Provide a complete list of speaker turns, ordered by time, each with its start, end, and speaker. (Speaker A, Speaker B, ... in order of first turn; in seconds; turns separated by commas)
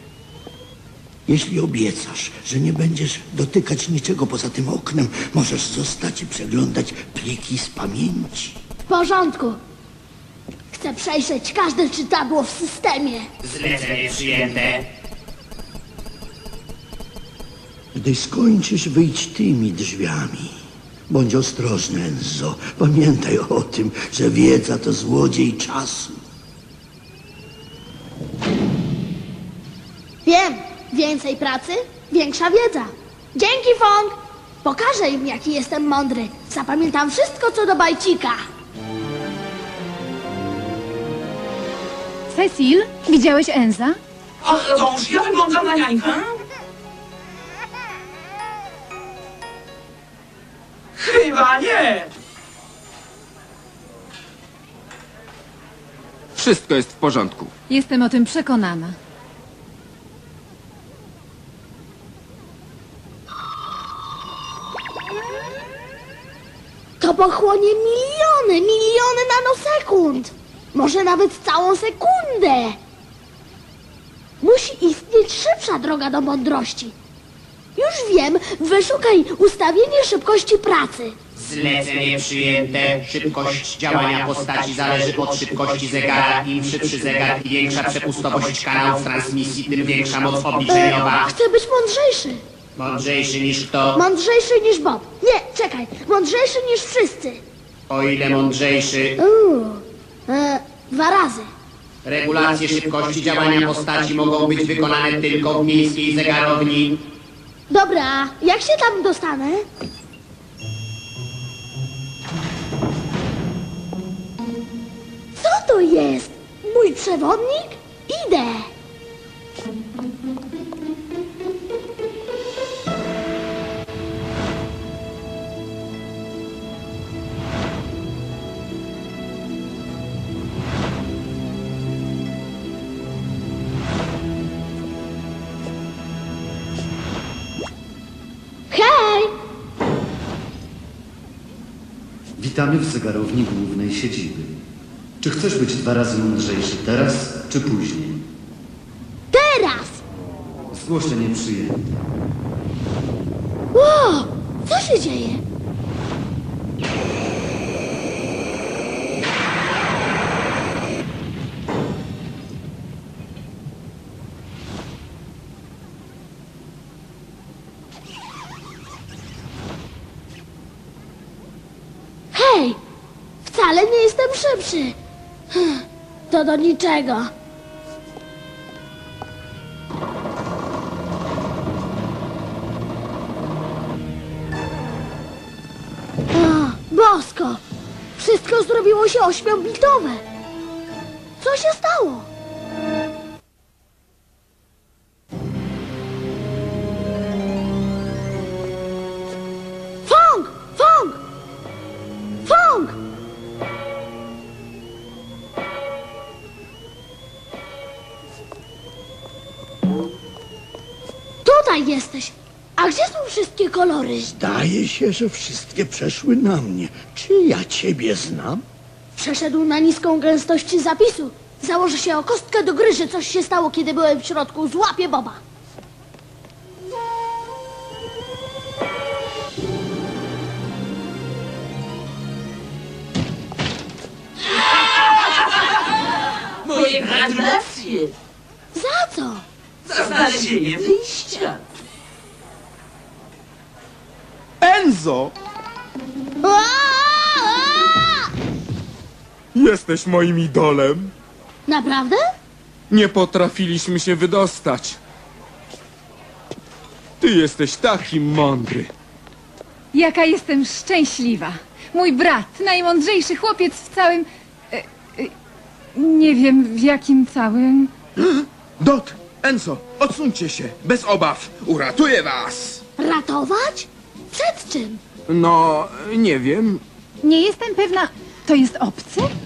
Speaker A: 1.3-8.6, Speaker B: 8.9-9.6, Speaker B: 10.7-13.3, Speaker C: 13.4-14.8, Speaker A: 17.9-26.2, Speaker B: 30.2-38.4, Speaker D: 42.3-44.0, Speaker E: 44.4-46.4, Speaker E: 51.0-52.1, Speaker F: 56.4-57.5, Speaker D: 57.7-59.0, Speaker B: 67.0-72.8, Speaker B: 74.4-76.9, Speaker B: 77.8-81.2, Speaker C: 81.3-91.3, Speaker B: 90.7-92.4, Speaker C: 92.8-94.0, Speaker B: 93.9-97.4, Speaker C: 97.9-99.1, Speaker B: 99.2-101.5, Speaker C: 102.0-107.0, Speaker B: 107.7-109.6, Speaker B: 115.3-118.7, Speaker B: 138.7-139.3, Speaker G: 142.4-144.6, Speaker G: 145.2-148.2, Speaker B: 149.3-150.0, Speaker G: 150.7-152.0, Speaker B: 153.7-155.4, Speaker B: 172.3-172.8, Speaker B: 173.4-174.9, Speaker B: 175.5-177.3, Speaker B: 186.3-187.6, Speaker B: 188.2-190.2, Speaker B: 191.4-192.3, Speaker B: 200.1-201.2, Speaker B: 202.4-202.9, Speaker B: 211.4-214.3, Speaker A: 214.3-218.6, Speaker B: 219.2-225.4, Speaker E: 234.6-235.6, Speaker E: 236.6-238.1, Speaker B: 238.7-239.4, Speaker E: 239.8-241.6, Speaker F: 244.6-245.3, Speaker B: 246.4-248.3, Speaker F: 249.5-251.1, Speaker B: 251.7-252.2, Speaker F: 252.9-255.0, Speaker F: 257.2-258.9, Speaker D: 259.9-265.3, Speaker D: 265.9-267.9, Speaker F: 268.2-272.8, Speaker B: 273.0-275.0, Speaker F: 275.3-276.8, Speaker D: 277.2-279.3